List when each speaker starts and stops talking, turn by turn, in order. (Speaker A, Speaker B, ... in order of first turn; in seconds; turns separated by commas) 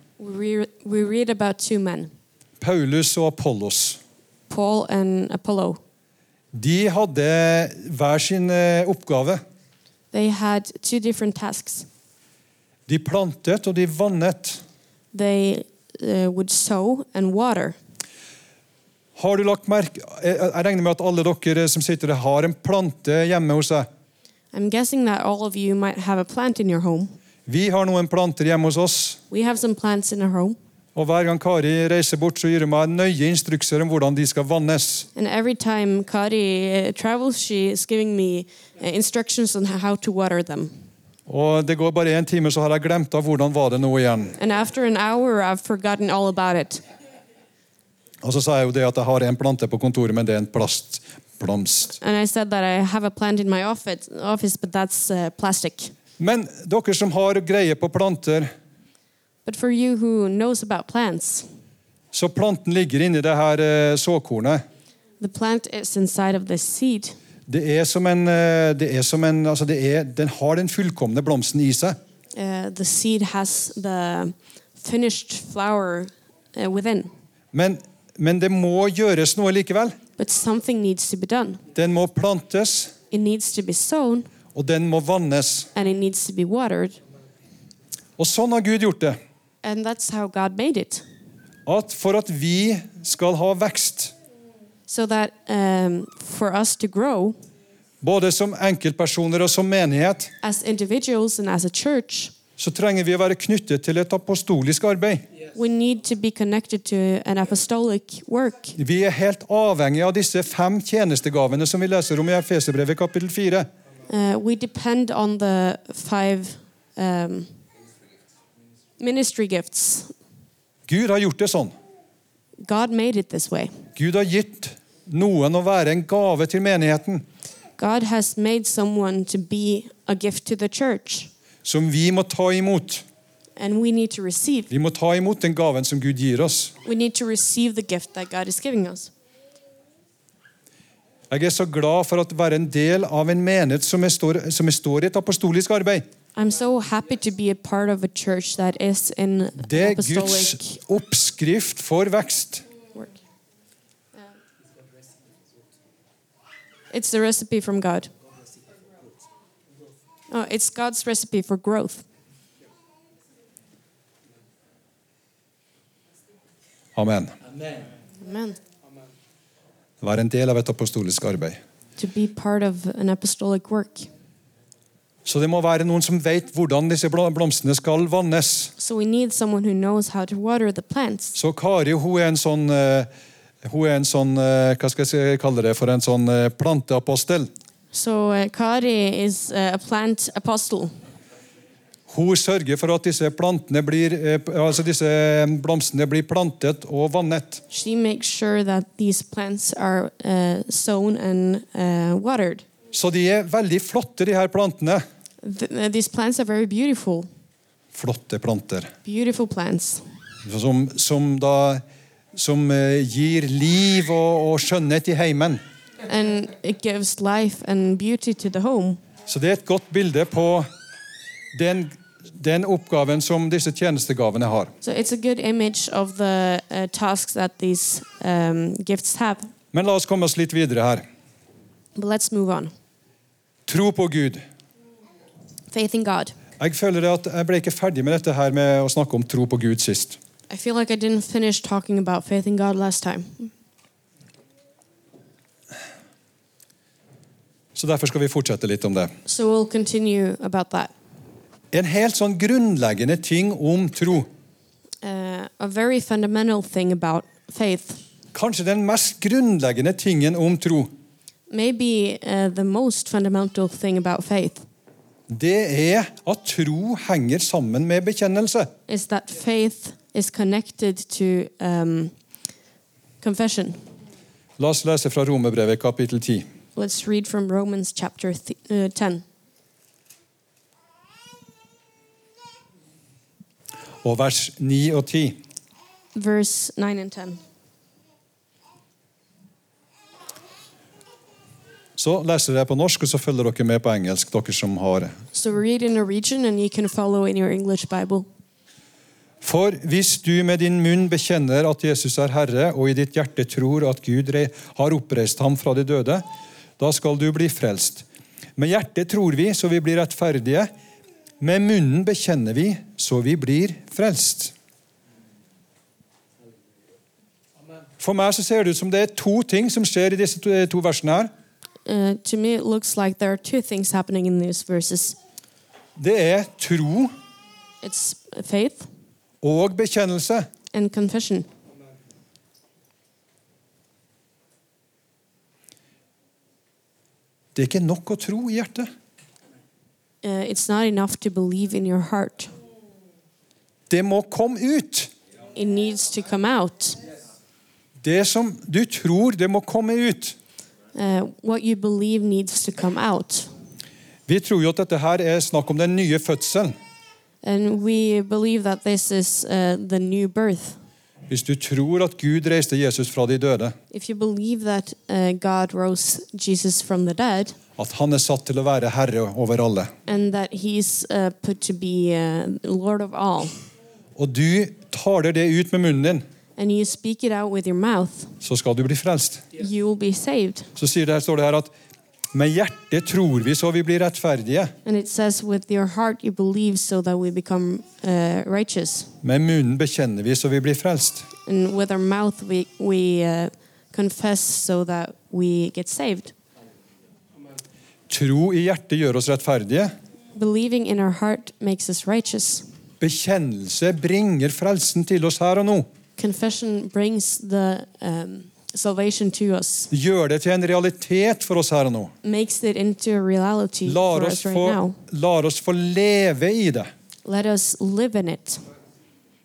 Speaker A: 0.2-2.1, Speaker B: 2.6-4.0, Speaker A: 4.5-5.8, Speaker B: 6.5-9.4, Speaker A: 10.1-11.9, Speaker B: 12.9-14.6, Speaker A: 15.1-17.8, Speaker B: 19.2-23.9, Speaker A: 24.5-27.1, Speaker B: 27.5-29.2, Speaker A: 29.3-30.6, Speaker B: 30.9-35.1, Speaker A: 35.1-40.7, Speaker B: 41.3-44.4, Speaker A: 44.4-46.8, Speaker B: 48.2-52.0, Speaker A: 52.0-55.9, Speaker B: 56.2-58.5, Speaker A: 59.5-61.5, Speaker B: 62.1-64.6, Speaker A: 65.2-67.2, Speaker B: 67.5-72.0, Speaker A: 72.3-77.1, Speaker B: 77.5-80.0, Speaker A: 80.2-81.6, Speaker B: 81.7-82.9, Speaker A: 83.1-84.3, Speaker B: 84.5-85.7, Speaker A: 85.7-87.0, Speaker B: 88.2-89.2, Speaker A: 89.6-91.0, Speaker B: 91.7-94.1, Speaker A: 94.9-97.4, Speaker B: 98.0-100.3, Speaker A: 100.4-102.3, Speaker B: 102.6-105.3, Speaker A: 105.5-108.8, Speaker B: 108.8-113.7, Speaker A: 114.1-117.5, Speaker A: 119.0-120.1, Speaker B: 120.9-121.7, Speaker A: 122.6-123.7, Speaker B: 124.0-127.2, Speaker A: 127.8-131.3, Speaker B: 131.7-133.0, Speaker A: 133.6-134.7, Speaker B: 134.7-136.8, Speaker A: 136.8-139.1, Speaker B: 141.3-146.1, Speaker A: 146.4-150.8, Speaker B: 149.6-152.7, Speaker A: 156.9-158.1, Speaker A: 160.3-162.1, Speaker B: 167.0-167.4, Speaker A: 168.2-168.6, Speaker B: 170.0-171.6, Speaker A: 172.0-174.1, Speaker B: 175.2-178.7, Speaker A: 178.8-181.4, Speaker B: 181.3-183.1, Speaker B: 183.6-187.5, Speaker A: 187.9-190.9, Speaker B: 192.1-197.6, Speaker A: 197.7-202.7, Speaker B: 202.9-205.0, Speaker A: 205.4-207.3, Speaker B: 207.9-208.9, Speaker A: 209.1-210.1, Speaker B: 210.4-211.8, Speaker B: 212.3-215.6, Speaker A: 216.1-219.0, Speaker B: 219.3-220.7, Speaker B: 221.5-224.7, Speaker A: 224.8-229.5, Speaker B: 229.7-231.1, Speaker A: 232.0-232.7, Speaker B: 233.7-234.4, Speaker A: 235.7-236.4, Speaker B: 236.6-240.2, Speaker A: 240.5-243.5, Speaker B: 247.8-249.1, Speaker A: 249.3-250.9, Speaker B: 251.7-254.3, Speaker A: 255.0-258.0, Speaker B: 258.3-260.9, Speaker A: 261.5-264.6, Speaker B: 265.3-268.7, Speaker A: 268.9-272.1, Speaker A: 273.2-273.8, Speaker B: 274.6-276.5, Speaker A: 276.8-279.2, Speaker B: 284.0-285.4, Speaker A: 286.1-287.4, Speaker B: 292.0-295.1, Speaker A: 295.3-298.3, Speaker B: 299.4-306.2, Speaker B: 306.8-310.7, Speaker B: 311.4-314.5, Speaker B: 318.0-321.3, Speaker A: 321.9-325.2, Speaker B: 326.0-327.1, Speaker A: 327.8-328.9, Speaker B: 329.4-330.5, Speaker A: 330.7-331.5, Speaker B: 337.6-338.9, Speaker A: 340.2-342.5, Speaker B: 343.9-345.1, Speaker A: 345.6-347.0, Speaker B: 348.0-350.4, Speaker A: 350.9-353.5, Speaker B: 354.3-356.8, Speaker A: 357.4-360.8, Speaker B: 361.3-363.8, Speaker A: 363.9-367.6, Speaker B: 367.8-369.9, Speaker A: 370.1-373.6, Speaker B: 374.2-376.2, Speaker A: 376.6-378.4, Speaker B: 378.4-379.5, Speaker A: 379.6-380.7, Speaker B: 380.8-381.7, Speaker B: 382.3-384.7, Speaker A: 384.9-389.1, Speaker B: 389.2-391.3, Speaker A: 391.5-396.3, Speaker B: 398.1-399.9, Speaker A: 400.4-402.7, Speaker B: 403.0-405.9, Speaker A: 406.2-409.9, Speaker B: 409.9-412.1, Speaker A: 412.2-415.0, Speaker B: 413.9-416.9, Speaker A: 417.2-418.6